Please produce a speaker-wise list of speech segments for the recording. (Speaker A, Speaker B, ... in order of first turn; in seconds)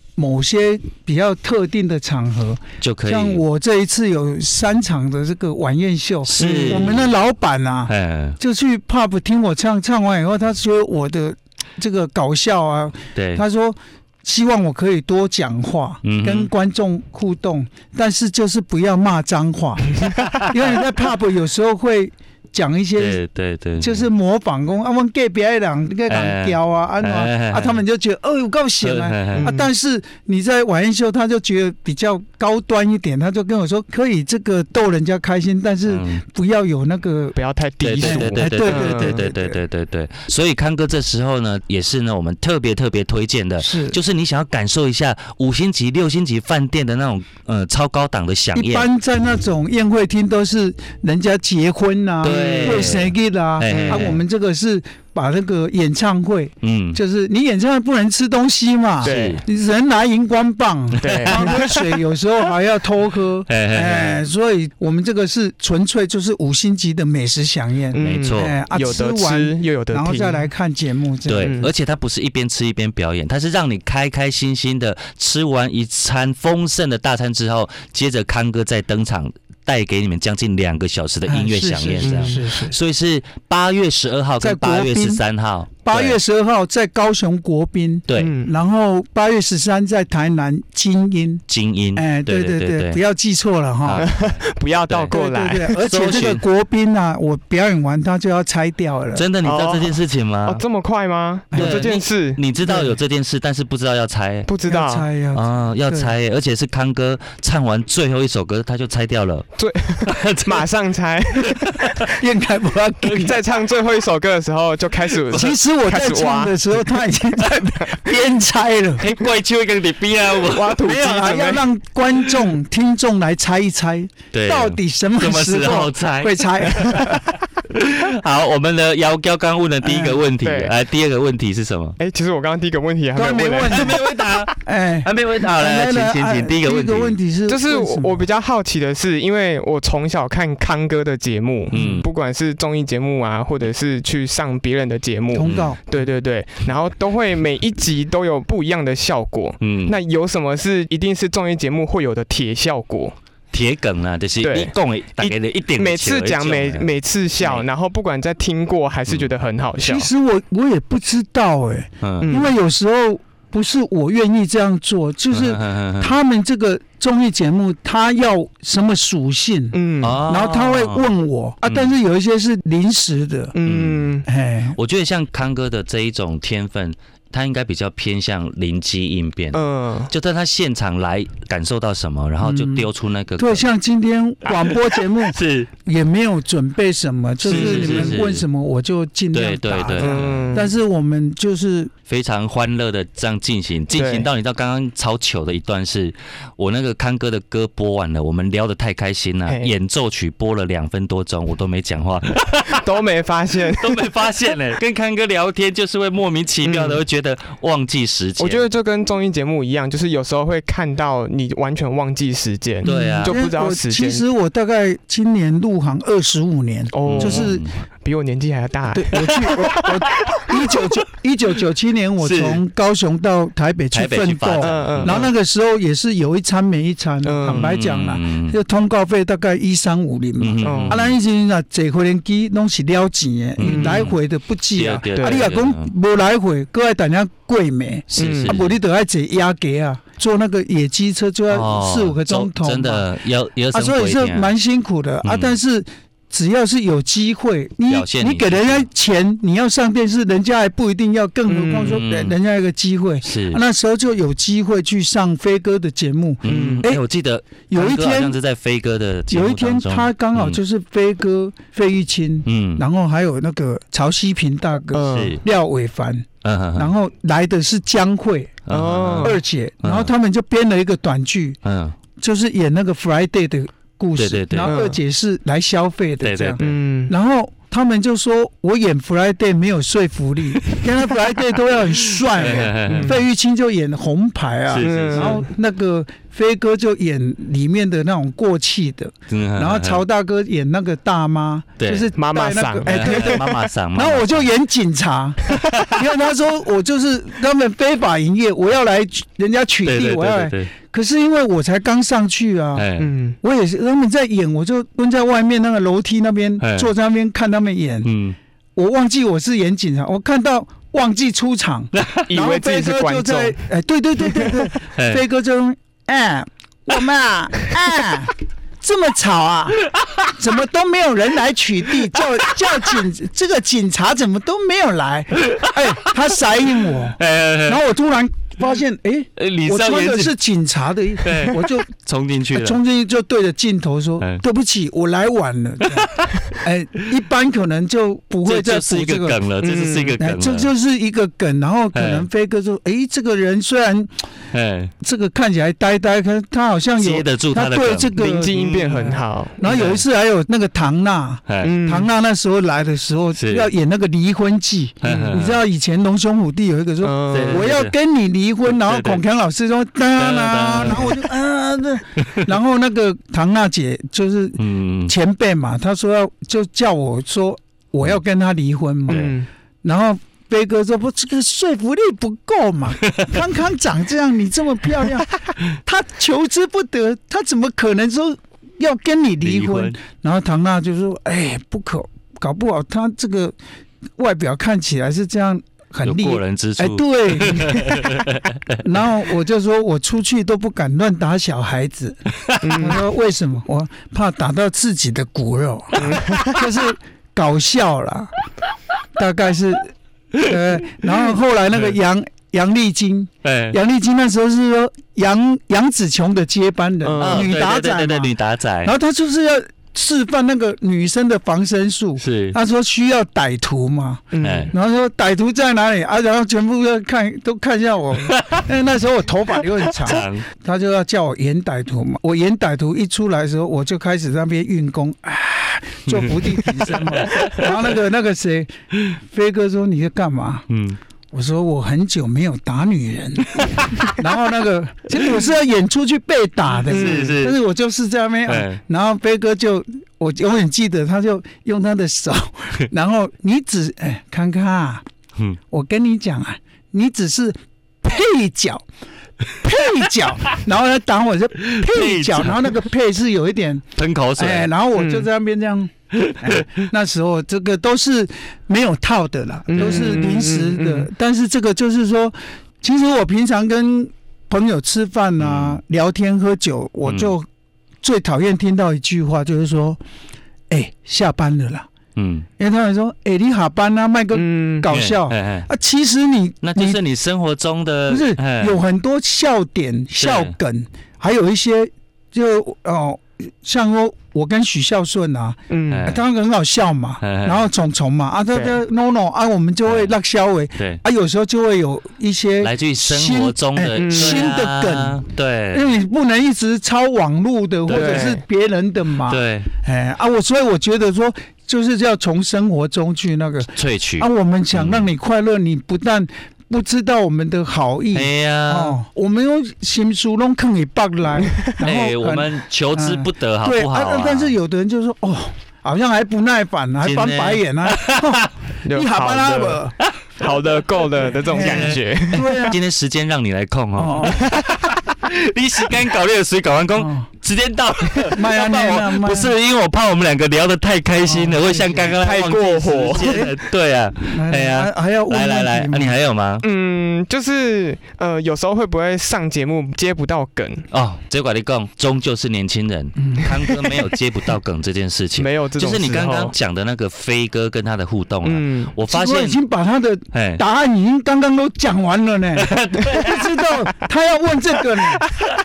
Speaker A: 0.2-23.2, 23.8-37.4, 38.0-39.6, 43.6-44.0, 48.5-71.7, 81.3-82.8, 84.4-85.2, 85.8-91.4, 92.0-94.1, 95.1-99.3, 101.5-101.9, 102.6-103.0, 104.7-106.1, 112.1-113.4, 115.3-119.1, 120.8-127.3, 129.8-130.2, 133.2-134.0, 134.6-138.3, 141.7-142.0, 145.3-145.8, 159.8-173.6, 174.2-174.8, 182.4-182.9, 183.4-191.9, 212.8-217.7, 218.9-243.1, 243.7-257.0, 257.7-258.4, 259.3-268.6, 269.2-271.6, 272.2-302.9, 303.4-308.1, 308.8-331.9, 332.5-339.4, 340.2-344.2, 345.0-383.6, 384.2-388.2, 388.8-398.3, 399.2-430.7, 431.3-445.1, 445.7-448.8, 449.6-467.5, 468.0-470.0, 470.7-471.9, 472.6-477.0, 478.1-495.2, 495.7-520.0, 521.5-522.8, 524.0-524.5, 527.0-527.3, 528.3-529.5, 531.2-532.2, 533.2-533.5, 534.3-536.2, 543.2-543.8, 549.1-555.3
Speaker B: 2.8-3.4, 6.3-7.1, 7.9-8.4, 13.2-13.4, 16.0-16.5, 20.2-20.7, 23.0-24.1, 26.1-27.8, 28.8-29.5, 35.9-36.2, 37.8-48.9, 52.2-54.2, 56.6-57.0, 59.0-59.4, 61.0-61.8, 63.5-64.2, 68.0-68.6, 71.3-86.2, 88.1-88.3, 91.5-93.0, 93.8-94.1, 94.9-95.1, 95.8-96.4, 99.2-100.6, 101.5-104.5, 105.3-109.5, 110.0-110.7, 111.4-112.1, 113.0-113.3, 119.0-120.8, 124.3-127.0, 127.7-132.0, 133.7-134.5, 135.0-137.2, 141.7-142.1, 145.4-145.8, 149.6-150.0, 153.5-157.7, 162.0-162.4, 165.3-166.2, 170.0-171.1, 171.7-171.9, 173.6-174.1, 174.8-183.7, 184.5-185.7, 187.4-188.4, 189.3-190.6, 192.1-202.8, 203.8-208.7, 212.8-213.4, 217.0-217.7, 219.2-219.5, 222.2-222.6, 223.9-225.3, 227.5-228.6, 230.4-231.2, 233.6-234.2, 234.8-235.9, 238.1-238.8, 241.5-244.5, 245.2-245.6, 247.9-248.9, 251.9-252.3, 253.2-253.6, 256.4-260.6, 262.5-262.8, 265.1-265.4, 266.4-266.9, 268.7-270.1, 271.6-272.0, 274.2-274.8, 276.2-276.7, 282.3-283.2, 284.7-285.4, 289.3-290.0, 291.8-292.1, 292.9-294.5, 295.5-296.0, 299.9-300.7, 302.8-303.1, 306.6-306.9, 308.1-308.4, 311.9-312.3, 314.9-315.2, 319.9-320.2, 325.4-326.1, 327.2-327.8, 329.4-330.3, 331.2-332.8, 335.8-336.4, 338.4-340.7, 341.9-342.3, 344.5-344.9, 347.0-348.1, 349.6-350.1, 351.5-351.8, 353.4-353.7, 355.0-355.6, 357.3-357.9, 358.7-359.2, 360.2-361.3, 362.2-362.5, 364.6-365.1, 369.1-369.3, 379.4-380.0, 386.0-388.8, 392.5-392.8, 400.4-401.1, 403.4-403.8, 407.2-408.9, 412.2-412.6, 414.4-414.7, 420.0-420.4, 426.1-427.9, 430.7-431.0, 433.6-434.0, 436.9-437.6, 438.5-438.8, 451.7-452.8, 454.0-454.7, 456.1-456.7, 459.8-460.1, 465.4-465.8, 467.1-467.3, 472.2-472.5, 474.9-475.7, 476.6-478.8, 480.2-480.5, 485.9-486.2, 487.2-487.6, 489.9-490.1, 492.6-495.9, 497.9-498.3, 499.3-499.7, 503.8-505.1, 508.1-509.0, 511.8-514.5, 517.0-518.5, 521.5-536.6, 540.9-549.6, 550.3-550.6, 552.6-553.5
Speaker C: 6.4-6.9, 29.4-29.7, 37.4-39.2, 52.3-53.0, 53.7-54.2, 59.0-59.4, 61.0-61.8, 67.9-70.5, 71.4-71.7, 82.0-82.4, 88.2-88.5, 94.0-95.8, 99.4-102.4, 104.5-105.1, 109.6-112.1, 113.1-116.6, 117.5-118.0, 120.3-121.7, 126.8-127.2, 130.4-130.7, 132.0-134.5, 137.5-153.2, 154.4-160.1, 162.2-162.5, 169.7-170.2, 173.6-174.3, 179.5-180.1, 187.4-188.2, 190.0-190.7, 193.9-194.3, 199.5-199.7, 202.7-204.3, 206.7-207.0, 208.4-214.2, 216.9-220.5, 224.6-225.3, 227.2-227.7, 230.6-231.0, 233.7-234.1, 235.2-235.5, 238.2-238.6, 251.5-252.0, 256.4-256.9, 264.9-265.4, 268.7-269.4, 274.6-275.0, 276.6-277.1, 282.5-283.2, 284.8-285.4, 292.2-293.5, 303.0-303.4, 312.3-313.6, 314.3-314.5, 339.6-340.2, 348.2-349.6, 351.6-352.1, 355.0-355.4, 357.0-357.7, 369.1-369.5, 392.6-393.0, 396.0-396.6, 407.0-407.5, 414.3-414.7, 436.9-437.4, 455.0-455.3, 459.7-461.1, 474.4-474.9, 485.7-486.1, 494.0-494.5, 497.9-498.4, 518.9-519.8, 520.4-522.6, 524.3-525.0, 532.2-533.5, 536.6-540.9, 543.5-543.9, 545.4-546.5, 548.4-548.9